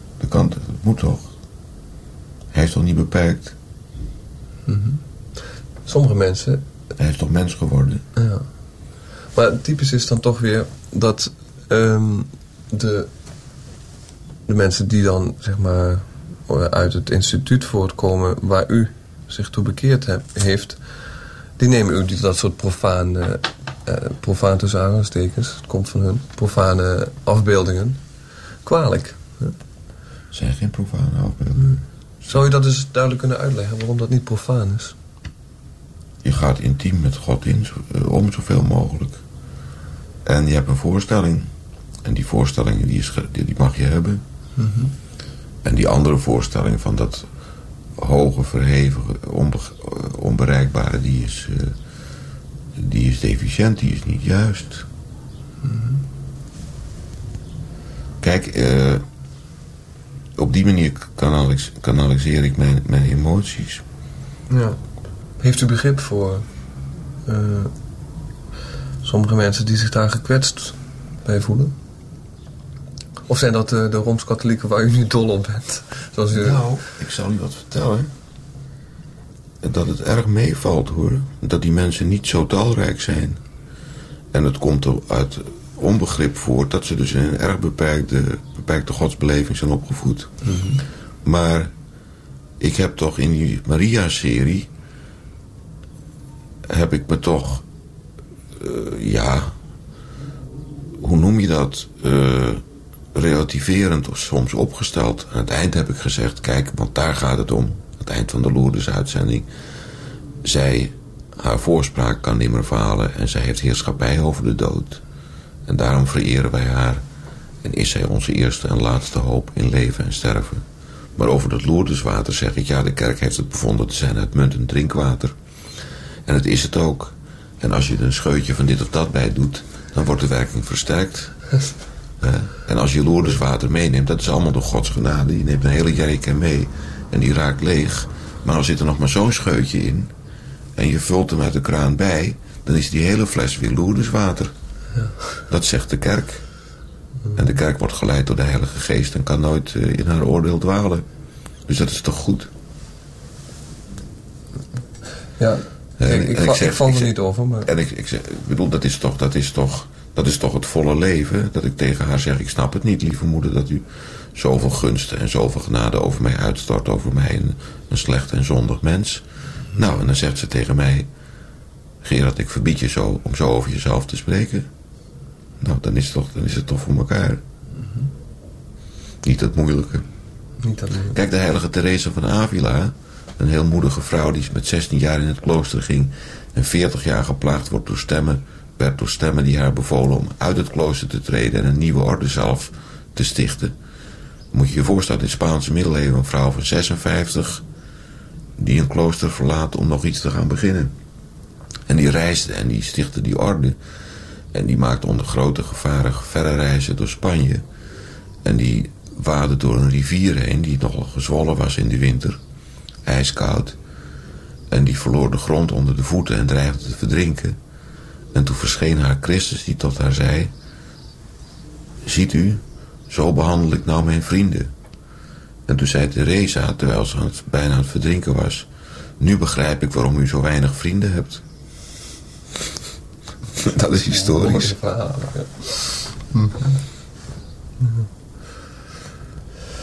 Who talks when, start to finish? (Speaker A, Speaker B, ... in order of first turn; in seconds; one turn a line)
Speaker A: 0.2-1.3
Speaker A: 2.5-3.5
Speaker B: 4.7-5.0
Speaker B: 5.8-6.6
Speaker A: 7.0-8.0
Speaker B: 8.1-8.6
Speaker B: 9.3-13.1
Speaker B: 14.5-28.1
Speaker B: 28.6-29.6
Speaker A: 30.3-31.8
Speaker B: 31.6-35.0
Speaker A: 36.2-39.2
Speaker A: 40.2-41.5
Speaker A: 42.0-44.2
Speaker B: 44.6-44.9
Speaker A: 45.6-47.2
Speaker A: 48.0-51.7
Speaker A: 52.8-54.9
Speaker B: 55.6-56.0
Speaker A: 58.2-59.0
Speaker A: 60.4-63.8
Speaker B: 64.5-66.6
Speaker B: 67.2-67.7
Speaker B: 69.0-71.7
Speaker B: 73.3-76.9
Speaker A: 76.3-78.1
Speaker A: 79.6-83.4
Speaker A: 84.3-90.5
Speaker B: 90.4-90.8
Speaker A: 91.2-91.7
Speaker A: 92.6-94.7
Speaker A: 96.7-97.6
Speaker A: 98.6-99.5
Speaker A: 101.0-102.6
Speaker A: 103.1-109.5
Speaker A: 110.4-115.0
Speaker A: 115.7-117.0
Speaker A: 117.6-120.6
Speaker A: 121.2-125.3
Speaker A: 126.2-131.4
Speaker A: 132.2-140.1
Speaker A: 140.8-144.5
Speaker A: 145.5-146.4
Speaker A: 147.3-151.0
Speaker A: 151.7-152.5
Speaker B: 155.4-157.7
Speaker A: 156.0-157.1
Speaker A: 157.6-163.8
Speaker A: 164.3-169.2
Speaker A: 169.8-171.1
Speaker A: 172.0-174.7
Speaker A: 175.6-177.4
Speaker B: 177.7-178.1
Speaker A: 179.2-180.1
Speaker B: 180.6-181.2
Speaker A: 181.1-193.7
Speaker A: 194.5-197.6
Speaker A: 198.6-200.9
Speaker A: 201.9-203.8
Speaker A: 204.5-207.6
Speaker A: 208.4-212.4
Speaker A: 213.0-213.8
Speaker A: 214.7-217.6
Speaker A: 218.3-220.5
Speaker A: 222.0-224.7
Speaker A: 225.7-228.7
Speaker A: 229.2-231.4
Speaker A: 233.6-234.7
Speaker B: 234.0-236.8
Speaker B: 237.8-238.1